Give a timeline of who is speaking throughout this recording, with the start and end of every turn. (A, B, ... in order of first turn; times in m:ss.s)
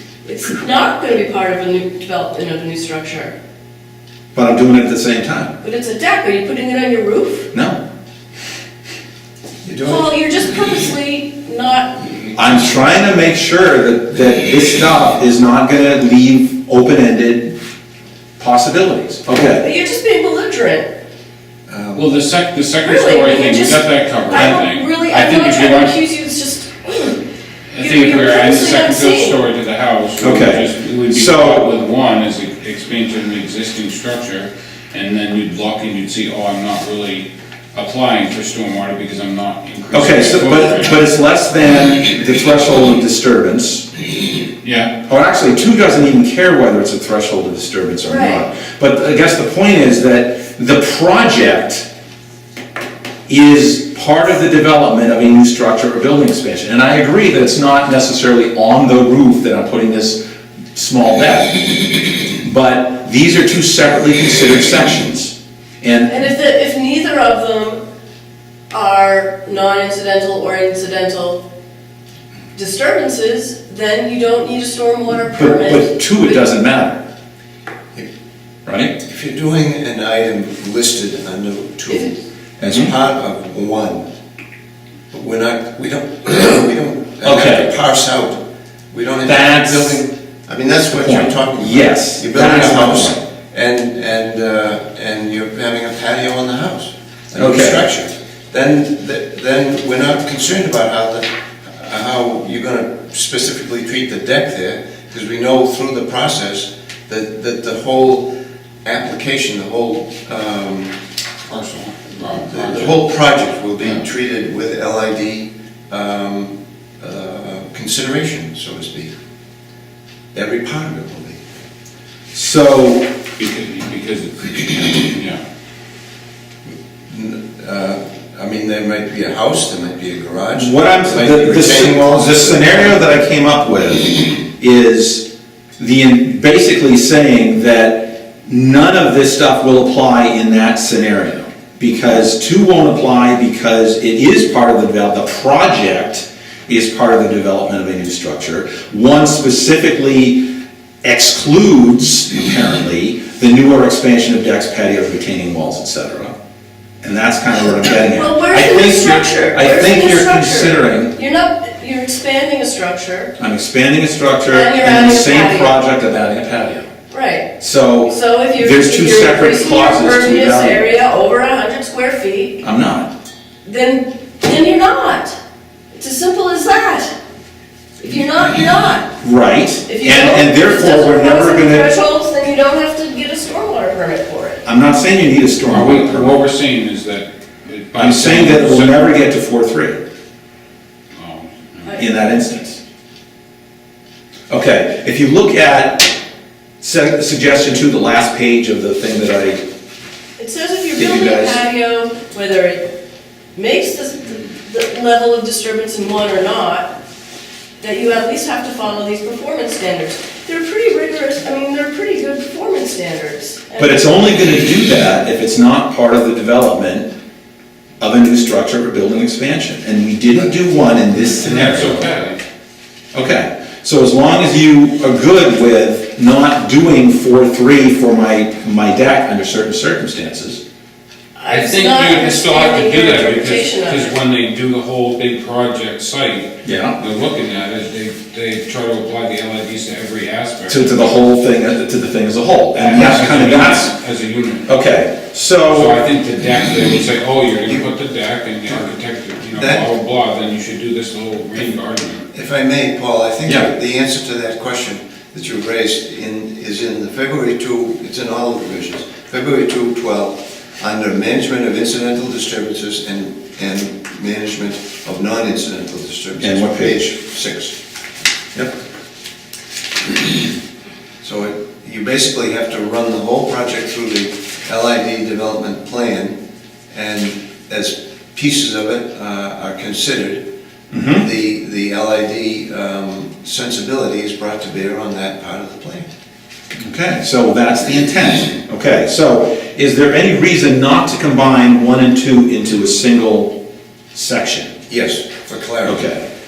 0:00.2-0:03.3 A
0:04.3-0:05.6 B
0:05.6-0:07.5 A
0:07.5-0:07.8 B
0:09.6-0:10.1 C
0:09.8-0:12.2 A
0:12.4-0:17.6 B
0:18.4-0:19.6 B
0:19.3-0:20.9 A
0:21.7-0:22.1 C
0:22.0-0:25.9 D
0:22.8-0:27.2 A
0:27.7-0:41.0 D
0:27.8-0:29.4 A
0:30.2-0:31.8 B
0:39.9-0:43.9 B
0:44.6-0:44.9 D
0:45.0-0:51.9 B
0:48.1-0:48.4 A
0:53.3-1:00.2 B
1:00.7-1:06.2 B
1:06.1-1:07.8 A
1:08.7-1:11.4 A
1:12.6-1:16.4 A
1:15.3-1:17.0 B
1:18.7-1:19.0 B
1:19.0-1:24.1 C
1:22.6-1:22.9 B
1:25.1-1:48.3 C
1:27.2-1:27.7 B
1:29.3-1:30.0 B
1:30.9-1:33.2 B
1:37.4-1:37.8 B
1:48.8-1:50.9 C
1:51.5-1:53.0 D
1:52.2-1:59.1 C
2:00.3-2:01.4 C
2:02.3-2:03.1 B
2:03.4-2:05.4 D
2:07.1-2:13.0 C
2:10.6-2:15.3 B
2:15.8-2:30.5 B
2:31.0-2:36.3 B
2:37.0-2:41.2 B
2:37.8-2:43.3 A
2:43.4-2:46.9 B
2:44.5-2:45.7 A
2:47.1-2:47.5 A
2:47.6-2:50.9 B
2:48.1-2:52.6 A
2:52.6-2:53.1 B
2:53.6-2:55.4 A
2:55.9-2:57.1 A
2:58.0-2:59.1 A
2:59.2-3:01.9 B
2:59.9-3:04.6 A
3:04.6-3:06.4 B
3:05.7-3:09.1 D
3:08.0-3:10.0 B
3:11.2-3:11.9 D
3:12.0-3:12.8 B
3:14.5-3:16.1 B
3:16.8-3:19.6 B
3:20.4-3:22.8 A
3:21.0-3:21.6 B
3:23.6-3:26.9 A
3:27.8-3:34.6 A
3:33.8-3:37.1 B
3:38.0-3:42.1 B
3:41.2-3:42.4 D
3:43.1-3:50.6 B
3:51.4-3:54.2 A
3:51.5-4:01.1 D
3:56.6-3:57.0 B
4:00.7-4:03.9 B
4:02.8-4:04.7 D
4:04.7-4:06.0 B
4:05.6-4:12.2 D
4:09.5-4:09.9 C
4:12.3-4:27.8 C
4:13.5-4:13.7 B
4:26.4-4:27.1 B
4:31.2-4:36.4 C
4:36.9-4:40.4 C
4:40.9-4:41.3 B
4:41.1-4:46.1 C
4:46.8-4:53.6 B
4:54.1-4:54.8 B
4:54.9-4:56.1 C
4:55.8-4:56.3 B